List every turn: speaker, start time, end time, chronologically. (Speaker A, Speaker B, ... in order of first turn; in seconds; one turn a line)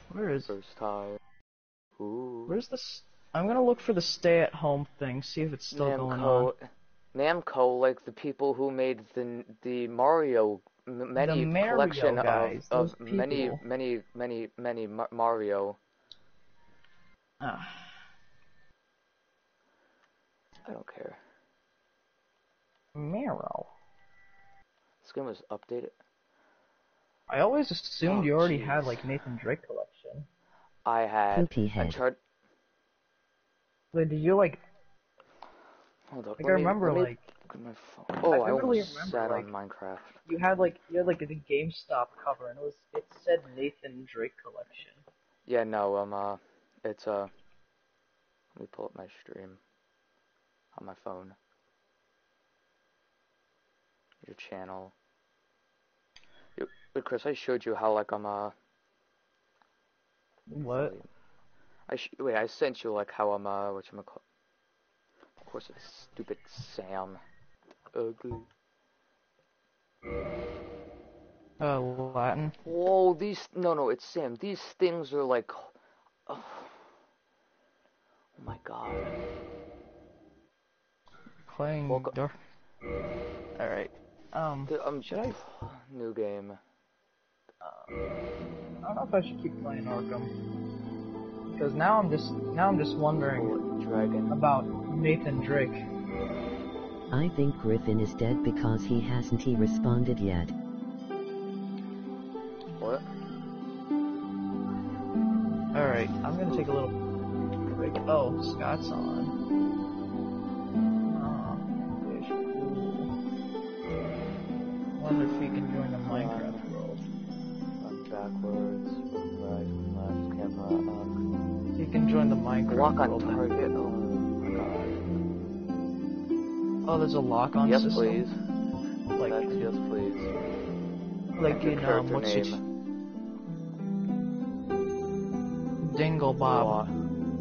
Speaker A: 0.1-0.5
Speaker B: 0.4-1.2
Speaker B: 1.9-2.6
Speaker A: 2.5-6.5
Speaker B: 5.7-15.8
Speaker A: 11.2-13.6
Speaker A: 17.4-17.9
Speaker B: 20.6-21.2
Speaker A: 22.9-23.7
Speaker B: 25.0-25.9
Speaker A: 27.3-30.3
Speaker B: 28.0-29.0
Speaker B: 30.8-32.2
Speaker C: 31.3-32.0
Speaker A: 33.9-34.6
Speaker B: 36.1-40.2
Speaker A: 36.4-37.2
Speaker A: 38.2-39.5
Speaker A: 40.2-45.0
Speaker B: 45.5-47.3
Speaker B: 48.5-49.6
Speaker B: 50.7-51.4
Speaker B: 54.2-54.9
Speaker B: 56.6-58.5
Speaker A: 60.5-60.9
Speaker B: 60.6-61.1
Speaker B: 61.9-64.2
Speaker B: 65.4-67.2
Speaker B: 67.9-68.5
Speaker A: 71.6-72.5
Speaker B: 72.6-75.7
Speaker B: 76.3-76.8
Speaker B: 78.3-79.2
Speaker A: 81.5-82.3
Speaker B: 81.9-82.1
Speaker A: 83.6-85.3
Speaker B: 84.7-86.6
Speaker A: 87.6-87.9
Speaker A: 88.8-90.3
Speaker A: 91.5-93.5
Speaker B: 93.2-94.3
Speaker A: 94.3-95.8
Speaker C: 97.1-100.5
Speaker B: 102.8-103.1
Speaker A: 105.7-107.0
Speaker A: 107.7-109.3
Speaker A: 111.0-113.1
Speaker A: 115.0-117.0
Speaker B: 115.7-116.7
Speaker B: 117.8-121.2
Speaker A: 121.8-123.5
Speaker B: 122.7-125.0
Speaker A: 126.8-128.2
Speaker B: 127.6-128.3
Speaker A: 129.2-129.6
Speaker B: 129.2-130.3
Speaker A: 131.3-132.6
Speaker B: 131.5-132.6
Speaker A: 135.8-136.8
Speaker B: 136.4-136.9